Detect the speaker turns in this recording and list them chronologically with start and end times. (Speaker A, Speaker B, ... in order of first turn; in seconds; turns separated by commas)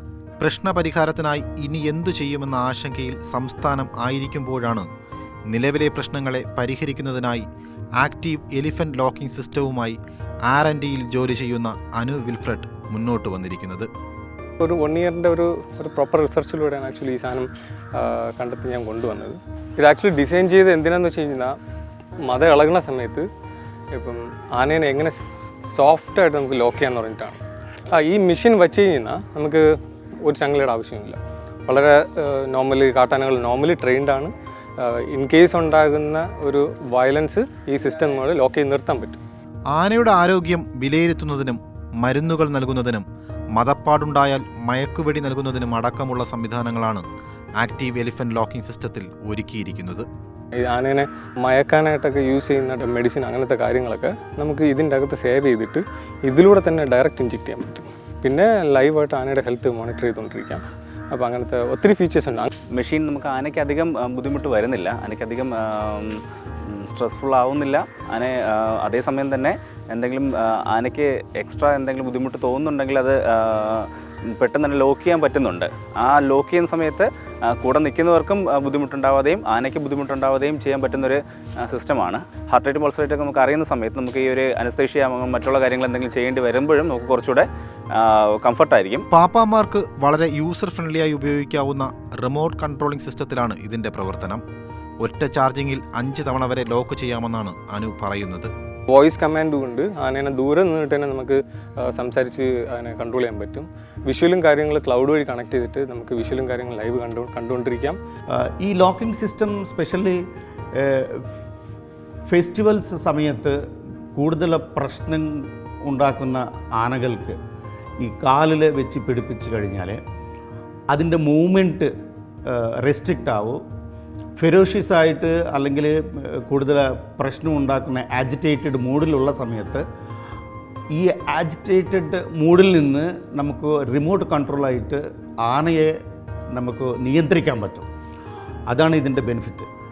Speaker A: 0.4-4.9, Speaker A: 5.5-7.5, Speaker A: 8.0-13.9, Speaker B: 14.6-21.5, Speaker B: 22.2-23.2, Speaker B: 23.9-27.4, Speaker B: 27.9-29.7, Speaker B: 30.2-39.2, Speaker A: 39.7-47.0, Speaker A: 47.6-50.1, Speaker B: 50.6-62.5, Speaker C: 62.7-89.0, Speaker A: 89.1-94.4, Speaker A: 95.0-98.5, Speaker B: 98.9-108.0, Speaker D: 108.3-110.2, Speaker D: 110.8-111.3, Speaker D: 112.3-113.6, Speaker D: 114.1-117.4, Speaker D: 118.0-120.0, Speaker D: 120.9-121.9, Speaker D: 122.5-123.6, Speaker D: 124.4-129.8, Speaker D: 130.9-135.9, Speaker D: 136.5-137.9, Speaker D: 138.7-139.7